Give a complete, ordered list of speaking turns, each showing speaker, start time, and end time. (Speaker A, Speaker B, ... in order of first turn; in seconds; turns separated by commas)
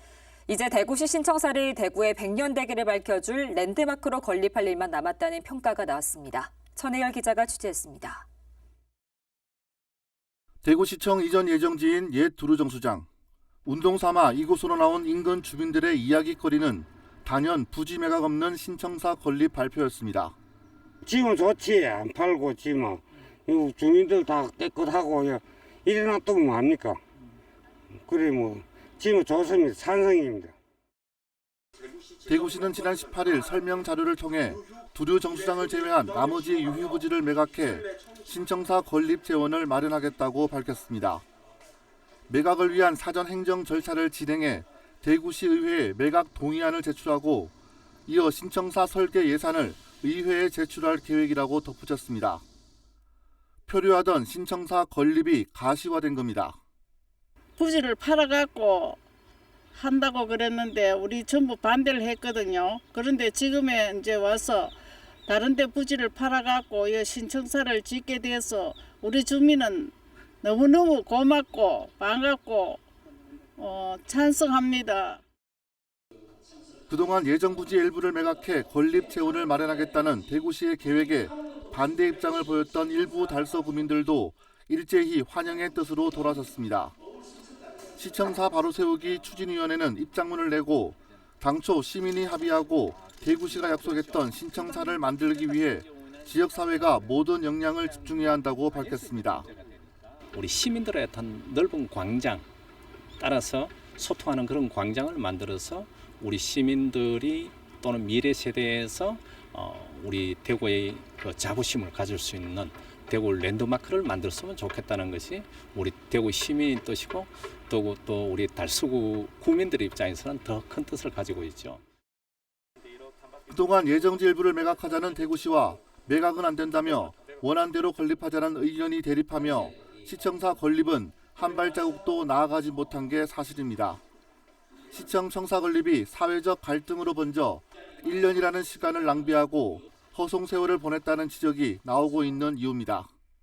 Speaker A: 0.5-8.2, Speaker B: 10.6-13.1, Speaker B: 13.7-20.3, Speaker C: 21.0-27.0, Speaker C: 27.9-30.5, Speaker B: 32.2-41.2, Speaker B: 42.3-47.5, Speaker B: 48.1-52.4, Speaker B: 53.7-56.6, Speaker D: 57.6-59.0, Speaker D: 59.7-72.8, Speaker D: 73.6-75.2, Speaker B: 76.9-87.0, Speaker B: 88.0-99.5, Speaker E: 99.4-99.8, Speaker E: 100.3-102.4, Speaker E: 103.2-121.8, Speaker B: 123.5-134.0, Speaker B: 134.9-143.1